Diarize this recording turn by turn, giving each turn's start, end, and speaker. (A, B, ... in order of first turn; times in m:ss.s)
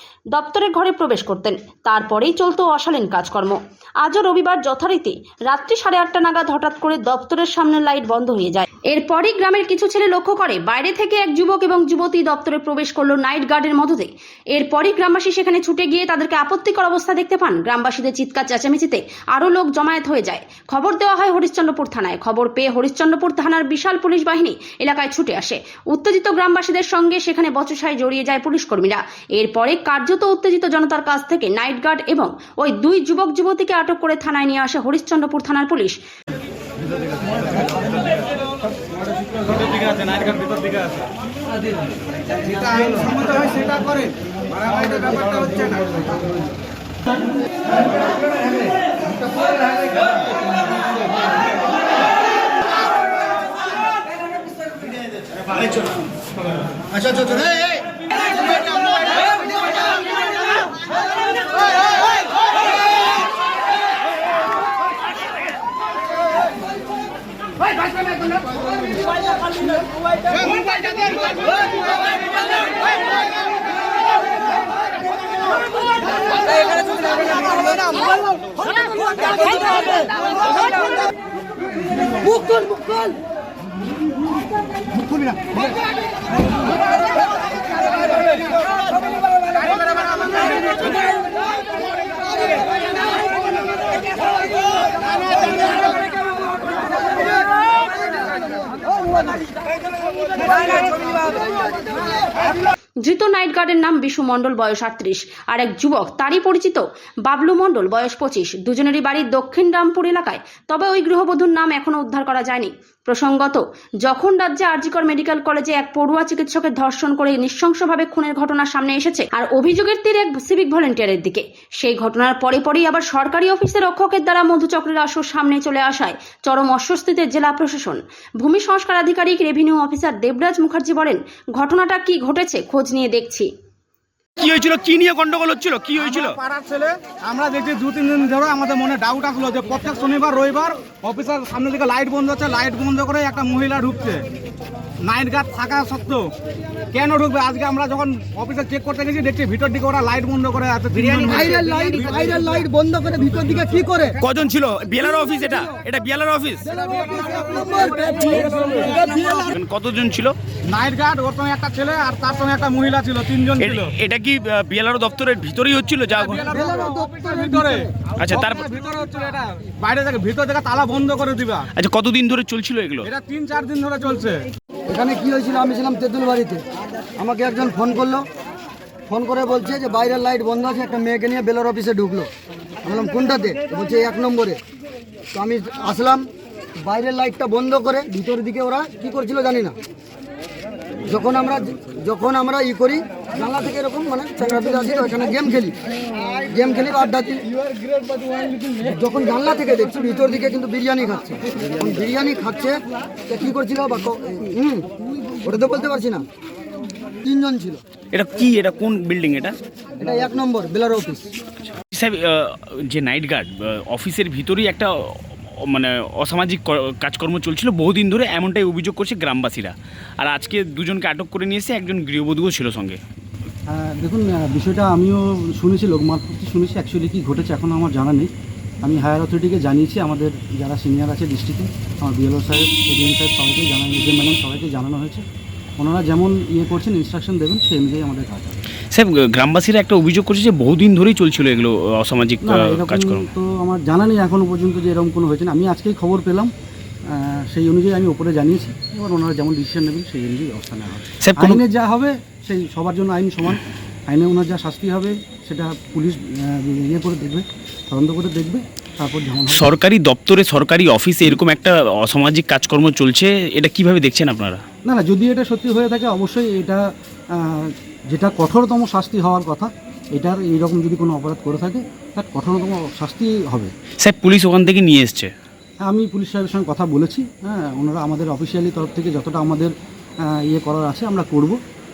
0:00.3-0:36.0 A
0:39.4-0:41.0 B
0:42.4-0:46.1 B
1:22.2-1:23.1 C
1:40.7-1:41.6 C
1:43.0-2:13.5 A
2:14.4-2:16.4 D
2:16.0-2:24.2 B
2:25.0-2:26.3 B
2:26.9-2:32.3 B
2:31.3-2:34.2 C
2:34.2-2:36.7 D
2:36.9-2:39.4 C
2:39.1-2:40.3 D
2:40.7-2:43.9 B
2:43.6-2:46.4 D
2:46.2-2:51.7 B
2:46.6-2:47.5 C
2:48.2-2:48.6 D
2:51.8-2:53.1 D
2:53.0-2:54.4 B
2:54.9-2:56.6 C
2:57.2-2:58.2 C
2:59.1-3:02.3 C
3:02.8-3:04.6 C
3:05.3-3:06.3 C
3:06.8-3:09.8 C
3:11.1-3:15.8 C
3:16.4-3:17.4 C
3:18.8-3:24.9 C
3:25.4-3:26.2 C
3:27.2-3:27.8 C
3:28.1-3:29.5 D
3:30.0-3:31.3 C
3:31.9-3:34.9 D
3:35.6-3:43.0 D
3:43.7-3:48.3 E
3:48.8-3:55.2 E
3:55.8-3:58.6 E
3:58.9-4:03.3 D
4:02.4-4:06.5 E
4:07.1-4:19.7 E
4:11.2-4:11.6 D
4:19.5-4:24.6 D
4:24.9-4:26.8 E
4:27.3-4:33.7 E
4:34.0-4:35.3 D
4:35.8-4:39.7 E
4:40.2-4:41.6 E